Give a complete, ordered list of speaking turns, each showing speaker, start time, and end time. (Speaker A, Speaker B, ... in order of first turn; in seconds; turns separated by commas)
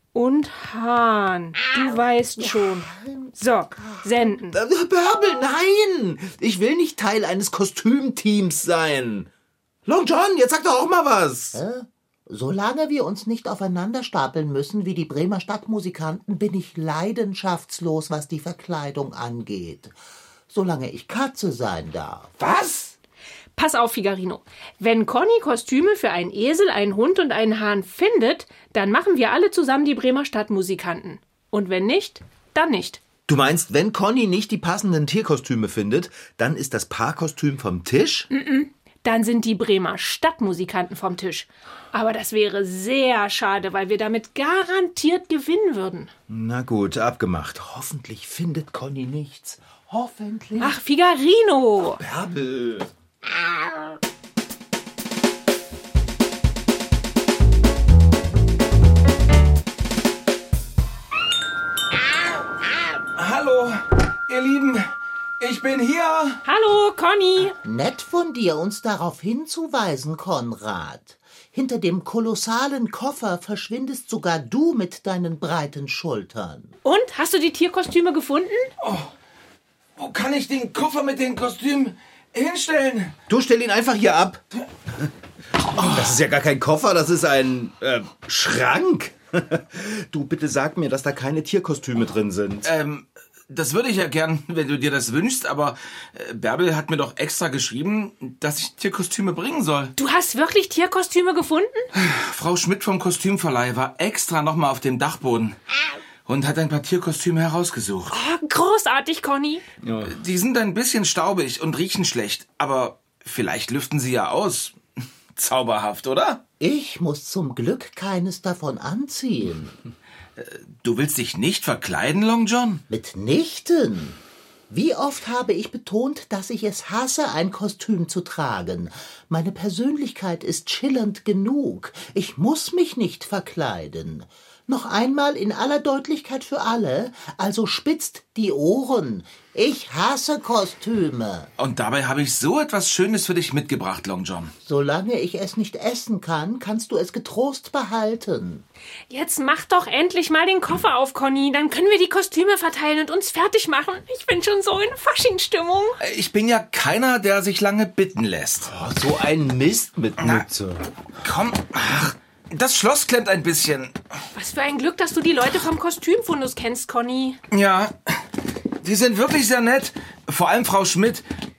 Speaker A: 0.1-4.6, Speaker B: 2.8-3.3, Speaker C: 4.5-9.3, Speaker C: 9.9-11.6, Speaker B: 11.5-19.9, Speaker B: 20.5-22.4, Speaker A: 23.6-33.0, Speaker C: 33.3-38.3, Speaker A: 38.3-46.1, Speaker C: 46.3-50.8, Speaker A: 50.6-52.0, Speaker C: 51.9-52.9, Speaker D: 63.2-64.9, Speaker D: 65.4-66.4, Speaker A: 66.4-67.6, Speaker B: 67.6-76.7, Speaker A: 76.8-78.7, Speaker D: 78.8-79.1, Speaker D: 80.0-83.1, Speaker C: 83.3-84.4, Speaker D: 85.8-86.1, Speaker C: 85.8-92.7, Speaker D: 92.6-99.9, Speaker A: 100.0-101.9, Speaker D: 101.9-105.6, Speaker D: 106.3-108.2, Speaker A: 108.1-109.6, Speaker C: 109.8-110.2, Speaker D: 110.0-114.8, Speaker D: 115.3-116.4, Speaker B: 116.6-119.8, Speaker D: 120.4-122.8, Speaker B: 122.9-124.2, Speaker B: 124.7-141.5, Speaker D: 141.6-144.5, Speaker B: 144.6-148.6, Speaker A: 149.1-156.0, Speaker D: 156.0-158.7, Speaker C: 158.7-160.9, Speaker D: 160.2-160.5, Speaker D: 161.2-163.9, Speaker A: 164.3-167.4, Speaker D: 167.5-167.9, Speaker D: 168.8-171.2